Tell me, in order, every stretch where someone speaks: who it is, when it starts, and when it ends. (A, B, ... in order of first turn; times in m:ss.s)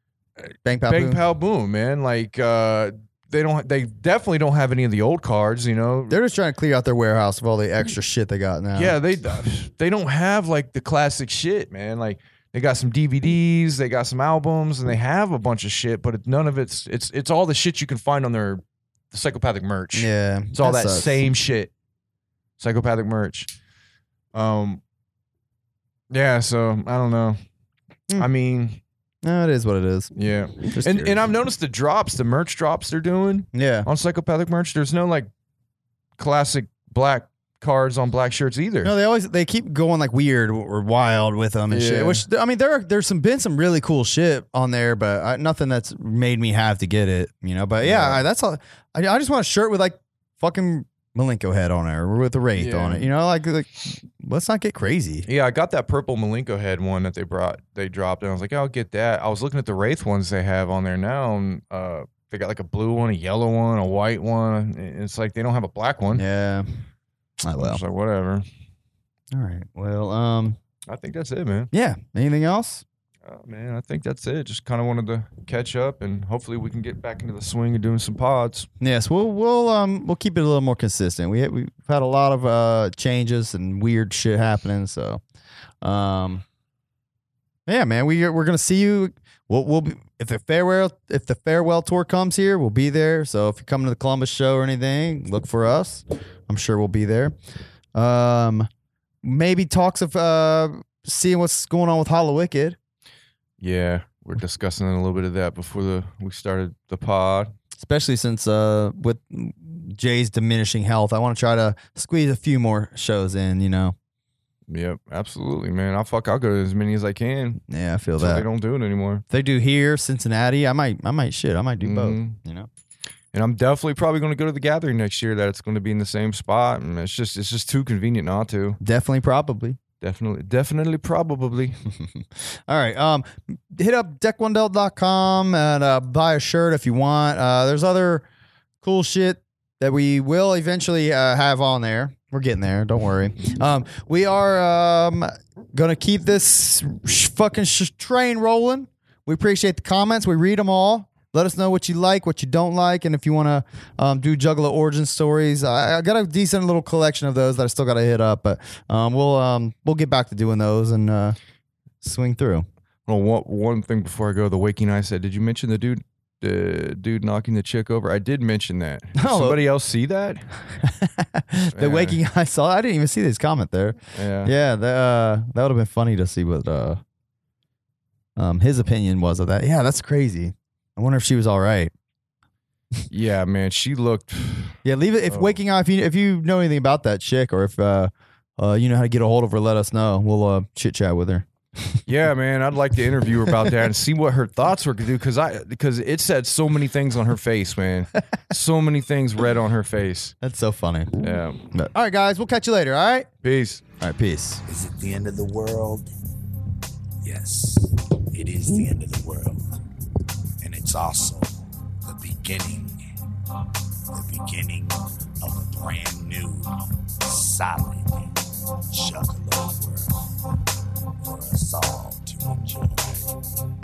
0:00.6-0:01.2 A
0:00.8-0:06.2 B
0:06.1-0:09.0 A
0:08.7-0:21.7 B
0:20.0-0:21.3 A
0:22.6-0:23.5 B
0:24.3-0:24.8 B
0:26.1-0:27.4 B
0:28.2-0:28.8 B
0:29.2-0:30.1 A
0:30.2-0:35.3 B
0:30.6-0:31.2 A
0:33.5-0:33.9 A
0:36.2-0:38.9 B
0:38.8-0:55.3 A
0:41.7-0:42.2 B
0:47.8-0:48.2 B
0:52.6-0:53.1 B
0:55.3-1:06.2 B
1:06.1-1:06.8 A
1:07.4-1:07.8 A
1:07.6-1:08.4 B
1:09.3-1:10.6 A
1:10.9-1:11.7 B
1:11.7-1:12.8 A
1:13.2-1:18.7 B
1:18.8-1:25.2 A
1:25.8-1:26.4 A
1:27.7-1:37.3 A
1:38.0-1:38.7 A
1:39.2-1:42.8 A
1:43.6-1:47.5 B
1:47.8-1:54.0 A
1:54.7-1:57.6 B
1:57.7-1:58.5 A
1:58.2-1:59.2 B
1:59.3-2:02.7 A
2:01.8-2:02.4 B
2:03.3-2:08.8 B
2:08.8-2:09.8 A
2:10.0-2:11.8 B
2:11.9-2:18.2 A
2:18.8-2:41.4 A
2:42.0-2:42.6 A
2:43.1-2:50.5 B
2:49.2-2:49.6 A
2:50.8-2:57.0 A
2:51.7-2:52.2 B
2:54.2-2:54.5 B
2:58.4-3:01.9 A
3:03.1-3:05.6 B
3:04.8-3:12.0 A
3:12.1-3:20.4 B
3:20.4-3:21.1 A
3:21.2-3:21.7 B
3:21.7-3:23.3 A
3:23.4-3:23.8 B
3:24.0-3:24.6 A
3:24.7-3:26.1 C
3:27.2-3:29.7 C
3:30.6-3:33.0 C
3:34.1-3:40.3 C
3:41.2-3:43.3 C